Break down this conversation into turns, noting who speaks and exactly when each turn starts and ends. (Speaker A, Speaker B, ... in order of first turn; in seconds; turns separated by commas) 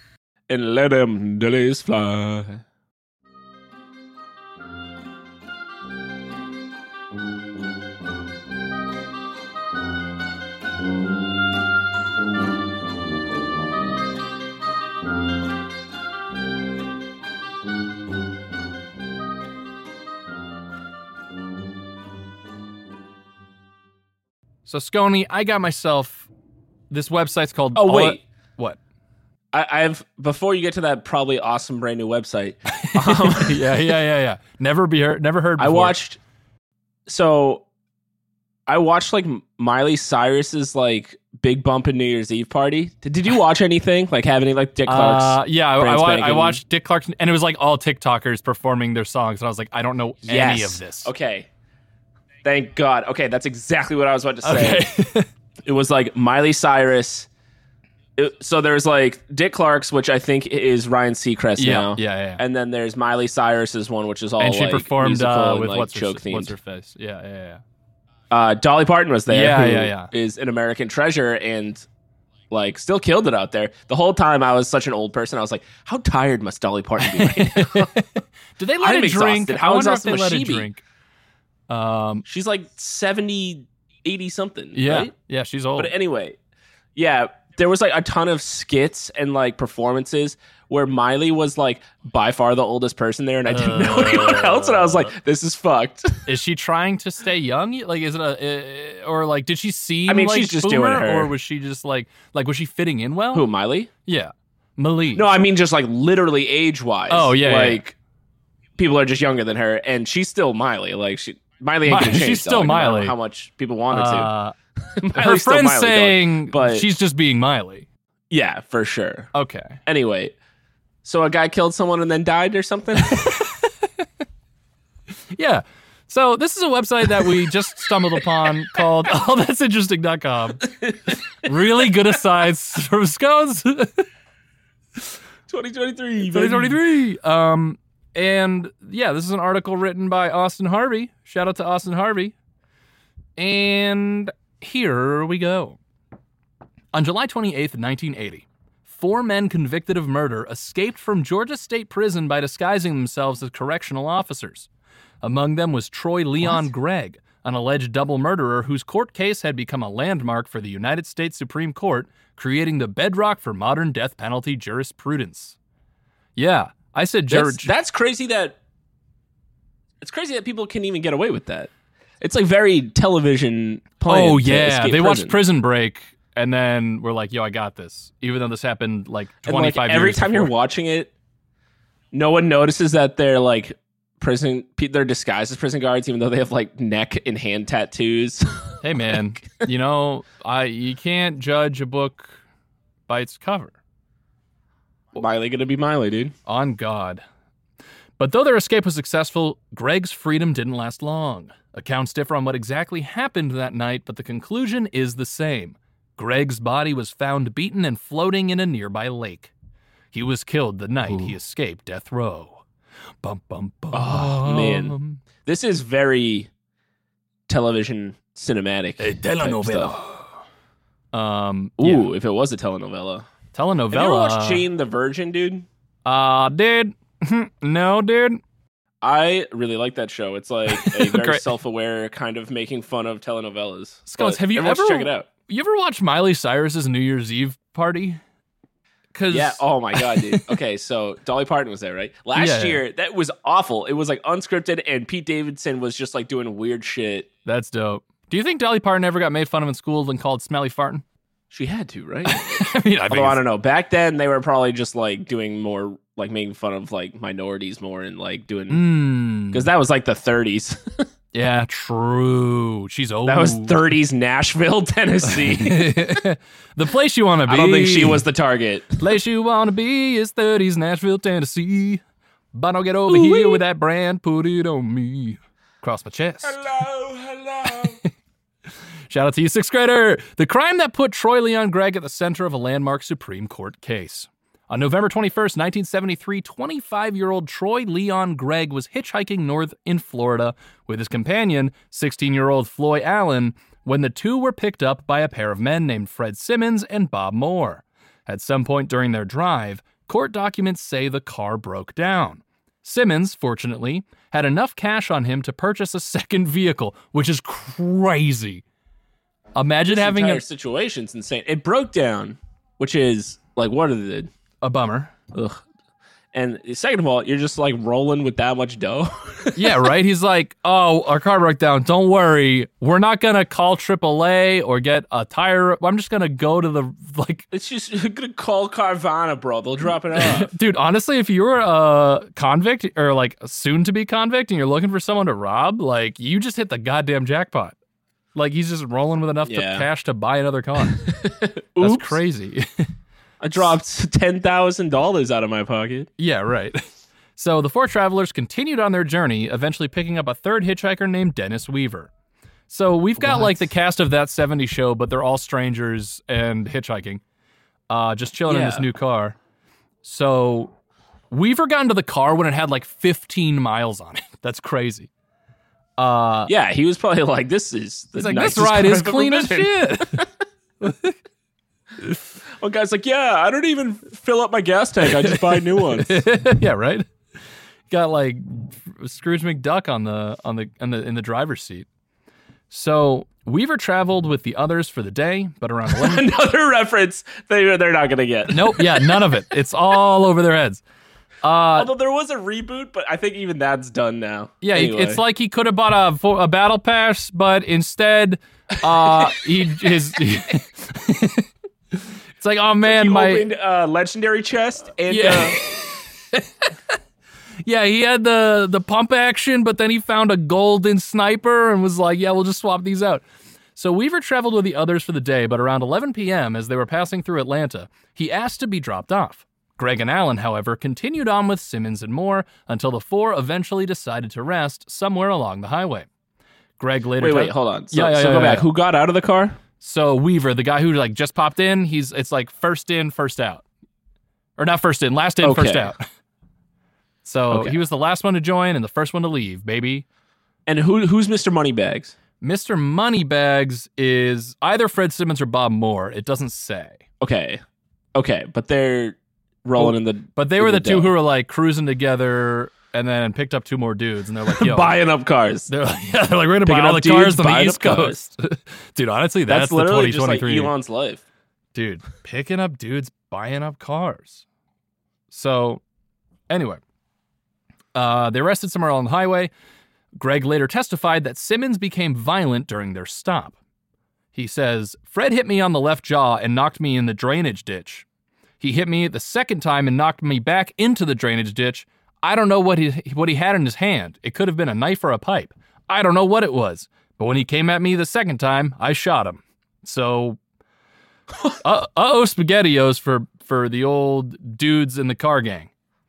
Speaker A: 0.5-2.6, Speaker B: 24.6-26.3, Speaker B: 26.9-28.8, Speaker A: 27.8-28.2, Speaker A: 29.5-34.0, Speaker B: 32.7-36.0, Speaker A: 35.6-36.2, Speaker A: 37.1-37.6, Speaker A: 38.7-46.6, Speaker B: 44.9-51.1, Speaker A: 50.2-51.5, Speaker A: 52.4-54.8, Speaker B: 54.4-55.3, Speaker A: 55.6-57.3, Speaker A: 58.2-66.5, Speaker B: 61.6-62.4, Speaker B: 64.4-67.6, Speaker A: 68.3-71.8, Speaker B: 69.3-70.1, Speaker A: 72.5-78.0, Speaker B: 77.0-80.8, Speaker A: 78.8-80.7, Speaker B: 81.7-82.2, Speaker A: 82.2-85.1, Speaker B: 84.7-85.9, Speaker A: 85.8-86.4, Speaker A: 87.0-96.3, Speaker B: 93.5-95.1, Speaker B: 96.2-103.5, Speaker A: 100.1-101.3, Speaker A: 103.3-103.9, Speaker B: 104.0-105.4, Speaker A: 105.1-108.0, Speaker B: 107.1-107.8, Speaker A: 108.8-114.3, Speaker B: 111.9-113.1, Speaker B: 113.9-114.5, Speaker A: 115.0-116.9, Speaker B: 115.1-117.9, Speaker A: 118.3-119.3, Speaker B: 119.3-119.8, Speaker A: 119.9-120.3, Speaker A: 121.0-123.4, Speaker B: 123.1-123.7, Speaker B: 125.4-134.1, Speaker A: 127.2-128.8, Speaker A: 130.6-131.1, Speaker A: 135.5-136.8, Speaker B: 136.3-142.3, Speaker B: 143.4-145.8, Speaker B: 146.9-154.7, Speaker B: 155.2-165.6, Speaker B: 166.4-167.7, Speaker A: 167.3-168.6, Speaker A: 170.0-171.7, Speaker A: 172.2-175.4, Speaker B: 174.1-180.5, Speaker A: 179.4-181.1, Speaker A: 182.1-188.8, Speaker B: 188.8-192.4, Speaker B: 193.1-193.8, Speaker A: 195.1-196.3, Speaker B: 196.5-197.2, Speaker B: 198.2-209.5, Speaker B: 210.1-212.6, Speaker B: 213.2-215.2, Speaker A: 213.9-216.5, Speaker A: 217.5-219.9, Speaker B: 219.0-220.3, Speaker B: 221.1-222.1, Speaker A: 221.8-223.3, Speaker B: 223.5-224.7, Speaker A: 223.9-225.7, Speaker B: 226.1-228.4, Speaker A: 229.0-235.3, Speaker B: 230.7-231.5, Speaker B: 234.1-238.2, Speaker B: 239.1-240.6, Speaker A: 239.3-247.3, Speaker B: 242.3-242.8, Speaker B: 247.4-251.0, Speaker A: 251.5-258.9, Speaker B: 252.2-253.4, Speaker B: 258.7-259.7, Speaker A: 259.5-261.1, Speaker B: 261.3-264.0, Speaker A: 263.2-266.0, Speaker B: 265.2-268.2, Speaker A: 267.5-269.0, Speaker B: 269.0-272.0, Speaker B: 272.5-276.6, Speaker A: 273.1-273.6, Speaker A: 276.4-278.0, Speaker B: 279.1-308.6, Speaker B: 309.6-310.4, Speaker A: 309.9-314.3, Speaker B: 314.6-315.1, Speaker A: 315.3-315.6, Speaker A: 316.3-319.9, Speaker B: 319.6-327.5, Speaker A: 327.5-330.5, Speaker B: 330.1-337.8, Speaker B: 338.4-341.1, Speaker A: 339.4-339.9, Speaker A: 340.9-342.2, Speaker B: 341.8-342.9, Speaker A: 343.4-346.1, Speaker B: 346.2-346.9, Speaker B: 347.4-352.1, Speaker B: 352.7-357.2, Speaker A: 353.2-353.6, Speaker B: 357.9-359.4, Speaker A: 358.5-358.9, Speaker B: 360.0-360.8, Speaker B: 361.3-365.1, Speaker B: 366.0-366.5, Speaker A: 366.5-370.3, Speaker B: 368.2-370.2, Speaker B: 370.8-371.1, Speaker A: 372.6-376.2, Speaker B: 375.1-377.1, Speaker B: 377.9-381.9, Speaker B: 382.7-386.2, Speaker A: 385.9-389.4, Speaker B: 388.5-390.8, Speaker B: 391.4-391.9, Speaker A: 391.8-395.2, Speaker B: 394.6-403.4, Speaker A: 399.0-399.3, Speaker A: 402.8-405.6, Speaker B: 405.1-406.5, Speaker B: 407.6-413.2, Speaker B: 413.8-426.1, Speaker B: 426.8-428.7, Speaker A: 427.2-429.6, Speaker B: 429.8-433.6, Speaker B: 434.6-436.0, Speaker A: 435.4-435.9, Speaker B: 437.2-440.1, Speaker A: 437.5-437.8, Speaker A: 440.7-442.1, Speaker B: 442.4-447.0, Speaker A: 447.2-447.6, Speaker A: 448.1-451.1, Speaker B: 449.8-454.9, Speaker A: 454.5-455.7, Speaker B: 455.7-460.7, Speaker A: 456.6-458.3, Speaker A: 459.5-461.2, Speaker B: 461.7-464.4, Speaker B: 465.3-465.8, Speaker B: 466.5-466.8, Speaker B: 467.9-469.5, Speaker B: 470.1-473.6, Speaker B: 474.3-478.1, Speaker B: 478.6-490.4, Speaker B: 491.6-495.7